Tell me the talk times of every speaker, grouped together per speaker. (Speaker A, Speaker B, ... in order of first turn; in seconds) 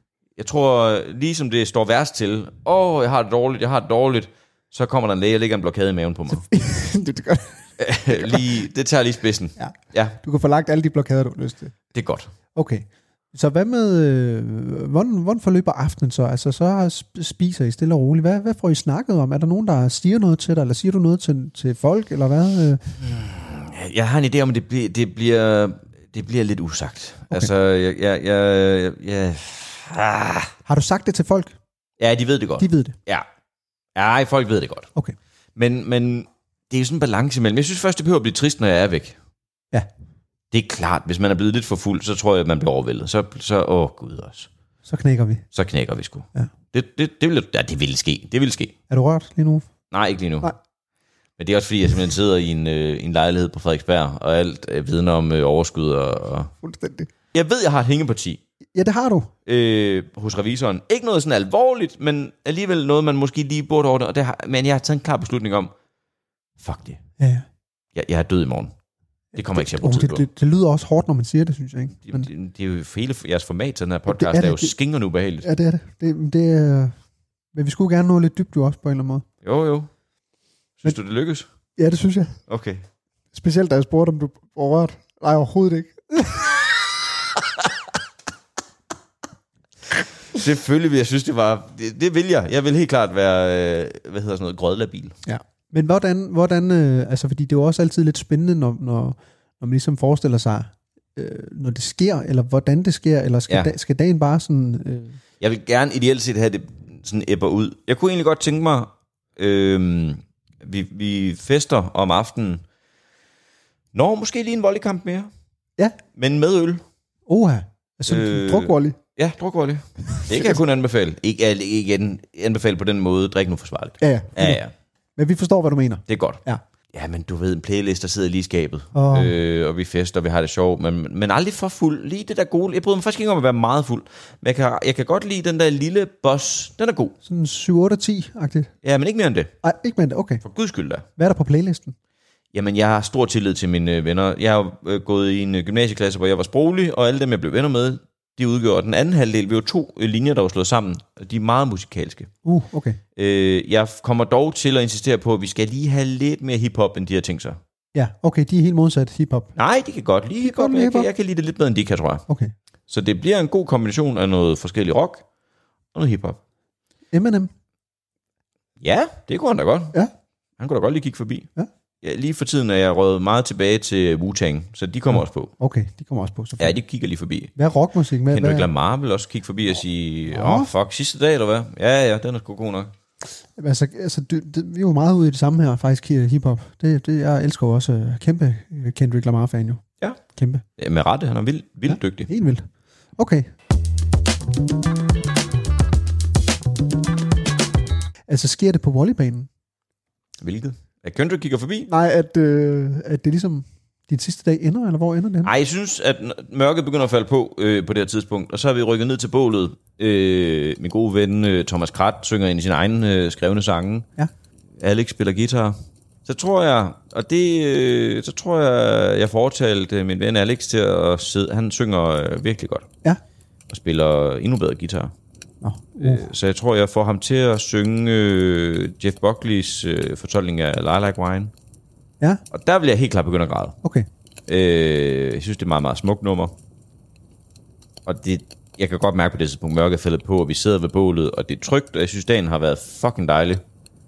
Speaker A: 0.4-6.5, 7.8-10.2, 11.9-12.3, 23.0-30.5, 32.0-33.3, 34.0-34.9, 35.6-39.2, 40.5-44.5, 45.5-48.7, 49.9-50.5, 51.4-56.5, 57.3-58.4, 59.5-65.7, 66.6-67.0, 68.0-68.7, 69.3-70.3, 72.1-75.5, 79.4-79.9, 80.8-81.5, 82.5-82.8, 90.3-95.2, 105.4-112.6, 113.9-115.3, 116.2-116.8, 118.1-124.7, 126.1-126.4, 126.9-137.2, 138.8-139.5, 140.4-141.1, 142.5-152.3, 153.2-157.6, 159.6-162.2, 162.9-165.2, 165.9-166.4, 168.8-169.9, 170.6-171.5, 172.0-175.5, 176.6-177.5, 178.3-182.9, 190.8-192.3, 200.4-201.9, 205.4-214.1, 214.8-222.9, 223.7-225.1, 226.0-231.5, 232.5-233.8, 234.5-236.5, 238.1-243.6
Speaker B: 6.3-8.5, 9.6-11.8, 12.6-22.9, 30.7-31.6, 32.6-33.0, 44.9-45.4, 48.9-49.7, 56.6-57.1, 58.8-59.3, 67.2-67.5, 69.3-72.3, 74.1-74.7, 75.4-76.9, 77.5-79.2, 81.8-82.4, 83.3-86.6, 95.3-105.2, 117.3-119.0, 120.1-120.6, 124.0-124.6, 125.2-126.6, 128.9-129.3, 137.2-138.7, 139.6-140.4, 141.2-141.9, 152.4-153.0, 157.9-159.5, 160.4-161.1, 167.1-167.5, 175.1-176.8, 177.6-178.7, 180.3-180.7, 183.6-189.8, 190.3-190.6, 191.9-192.7, 193.2-193.5, 198.3-199.5, 201.9-205.5, 225.6-226.3